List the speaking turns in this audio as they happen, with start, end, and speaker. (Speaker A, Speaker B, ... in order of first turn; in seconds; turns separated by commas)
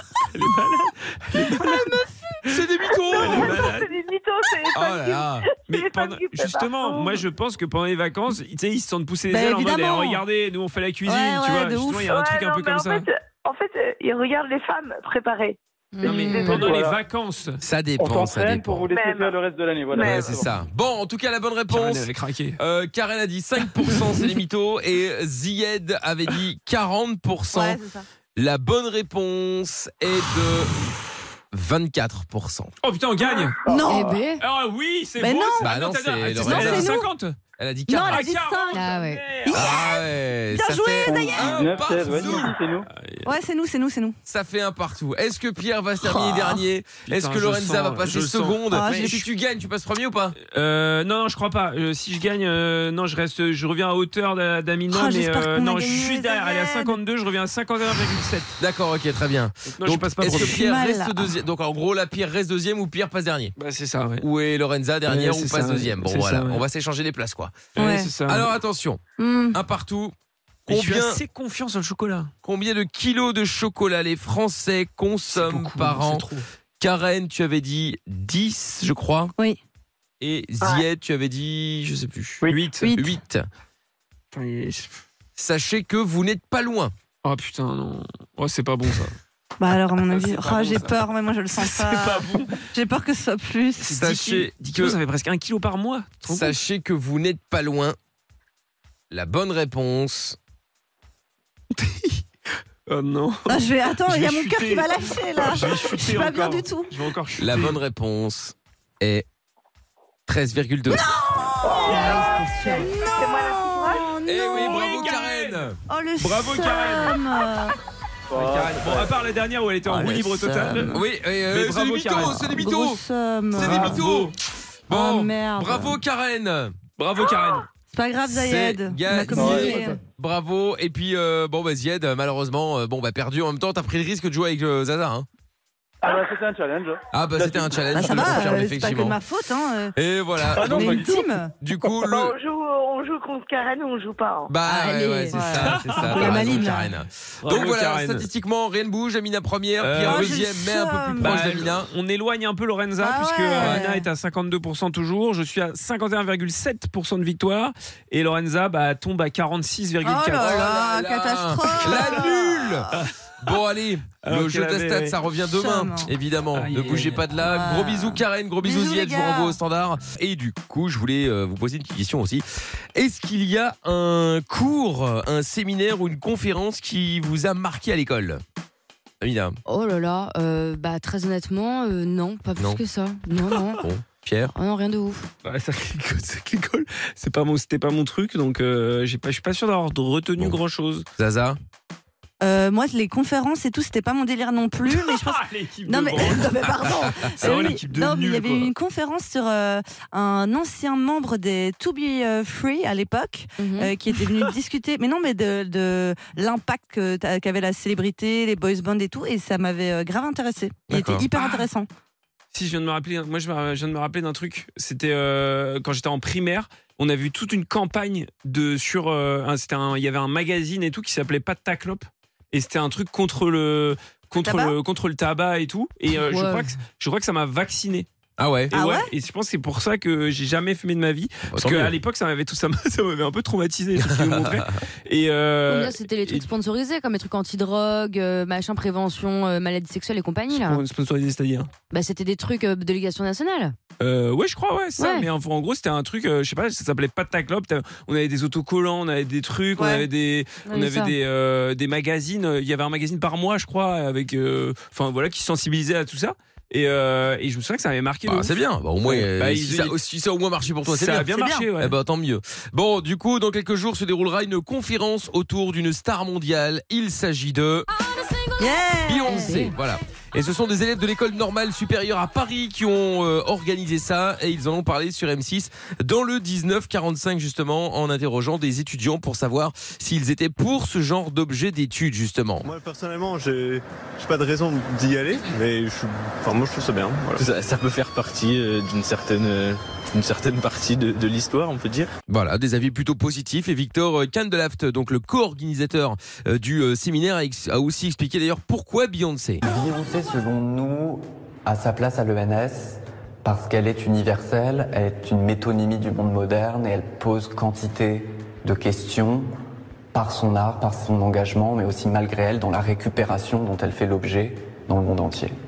Speaker A: 0.2-2.0, Speaker B: 1.4-2.4, Speaker C: 2.5-3.6, Speaker D: 2.9-7.2, Speaker A: 3.2-3.9, Speaker C: 4.7-5.5, Speaker A: 5.7-13.1, Speaker B: 9.3-10.2, Speaker B: 11.0-12.2, Speaker D: 12.1-15.6, Speaker E: 15.9-16.8, Speaker A: 16.0-17.6, Speaker D: 16.1-16.5, Speaker F: 16.5-17.0, Speaker C: 17.6-18.9, Speaker F: 18.0-20.5, Speaker D: 18.9-19.4, Speaker D: 19.9-20.3, Speaker C: 20.1-27.8, Speaker A: 21.7-22.6, Speaker B: 27.5-28.0, Speaker C: 28.4-30.9, Speaker C: 31.5-32.7, Speaker A: 32.8-33.6, Speaker B: 33.3-34.1, Speaker F: 33.6-34.2, Speaker E: 33.9-34.4, Speaker A: 34.4-37.4, Speaker B: 35.2-35.7, Speaker C: 35.6-36.9, Speaker B: 36.4-37.1, Speaker C: 37.6-38.2, Speaker B: 37.9-38.9, Speaker A: 38.1-39.7, Speaker E: 38.7-39.2, Speaker B: 39.4-41.8, Speaker C: 39.5-42.5, Speaker F: 41.0-42.9, Speaker A: 42.9-43.3, Speaker B: 43.2-44.2, Speaker C: 44.2-50.3, Speaker B: 46.0-46.6, Speaker A: 47.1-49.2, Speaker B: 48.7-49.2, Speaker A: 50.5-58.5, Speaker B: 54.9-57.0, Speaker C: 58.6-63.5, Speaker A: 59.8-60.6, Speaker B: 60.2-61.3, Speaker A: 63.6-64.2, Speaker C: 64.2-67.6, Speaker A: 65.1-66.6, Speaker A: 67.7-68.5, Speaker B: 67.8-68.1, Speaker C: 68.3-69.0, Speaker B: 69.2-69.6, Speaker C: 69.5-70.1, Speaker C: 70.7-71.2, Speaker A: 70.7-72.3, Speaker C: 72.4-76.2, Speaker A: 75.3-76.5, Speaker C: 76.8-79.3, Speaker C: 80.2-82.4, Speaker A: 82.5-82.9, Speaker B: 82.8-83.2, Speaker C: 82.9-83.5, Speaker A: 84.3-84.9, Speaker C: 85.4-86.9, Speaker A: 87.2-89.1, Speaker B: 89.6-94.1, Speaker A: 90.1-91.0, Speaker A: 91.6-92.6, Speaker A: 93.8-96.5, Speaker C: 93.9-95.0, Speaker C: 96.3-98.0, Speaker C: 99.1-100.4, Speaker A: 101.7-102.2, Speaker A: 102.9-107.8, Speaker B: 103.5-106.9, Speaker C: 107.4-109.2, Speaker C: 110.3-111.0, Speaker B: 110.9-115.2, Speaker E: 111.8-112.9, Speaker D: 113.1-114.0, Speaker C: 114.2-115.8, Speaker A: 114.5-117.2, Speaker B: 115.9-117.7, Speaker F: 118.3-119.2, Speaker A: 118.3-122.5, Speaker B: 119.9-121.0, Speaker C: 119.9-123.0, Speaker B: 122.2-124.1, Speaker C: 123.5-124.3, Speaker A: 123.6-124.3, Speaker B: 124.9-126.0, Speaker C: 124.9-127.6, Speaker A: 127.0-127.6, Speaker B: 127.9-130.0, Speaker C: 128.3-135.3, Speaker F: 129.3-129.8, Speaker F: 136.0-138.6, Speaker C: 137.1-139.2, Speaker B: 137.9-139.9, Speaker C: 139.9-142.3, Speaker F: 140.5-141.2, Speaker B: 140.6-141.5, Speaker D: 142.1-144.5, Speaker C: 144.5-151.9, Speaker E: 144.7-145.3, Speaker B: 145.2-146.9, Speaker A: 145.4-146.6, Speaker A: 147.4-148.3, Speaker A: 149.8-150.4, Speaker B: 150.0-151.6, Speaker A: 151.2-160.8, Speaker B: 153.0-154.1, Speaker C: 153.6-153.9, Speaker B: 160.0-163.0, Speaker C: 160.4-178.4, Speaker A: 161.8-162.2, Speaker A: 164.2-165.2, Speaker B: 165.4-166.1, Speaker A: 166.5-167.2, Speaker B: 167.4-169.6, Speaker C: 179.2-179.6, Speaker E: 179.7-183.8, Speaker A: 183.4-183.8, Speaker C: 183.8-184.5, Speaker E: 184.5-185.3, Speaker A: 185.4-191.1, Speaker C: 191.2-191.6, Speaker B: 192.4-211.9, Speaker A: 194.9-198.7, Speaker C: 197.4-197.7, Speaker E: 203.6-203.9, Speaker C: 210.9-211.3, Speaker A: 212.5-228.1, Speaker B: 224.4-224.7, Speaker E: 226.2-226.7, Speaker C: 228.4-228.7, Speaker A: 228.7-236.5, Speaker B: 228.7-229.1, Speaker C: 231.5-231.9, Speaker C: 234.0-234.6, Speaker E: 235.7-240.8, Speaker A: 240.5-241.7, Speaker E: 241.9-243.7, Speaker A: 244.0-260.0, Speaker E: 245.0-245.3, Speaker B: 249.8-250.1, Speaker E: 250.7-251.2, Speaker C: 258.3-267.9, Speaker A: 260.8-261.9, Speaker B: 268.6-269.7, Speaker C: 269.1-282.6, Speaker G: 282.6-287.5, Speaker H: 287.1-288.9, Speaker G: 288.4-289.7, Speaker H: 290.2-292.0, Speaker G: 290.2-292.0, Speaker C: 292.3-299.6, Speaker I: 299.6-309.5, Speaker I: 310.1-315.5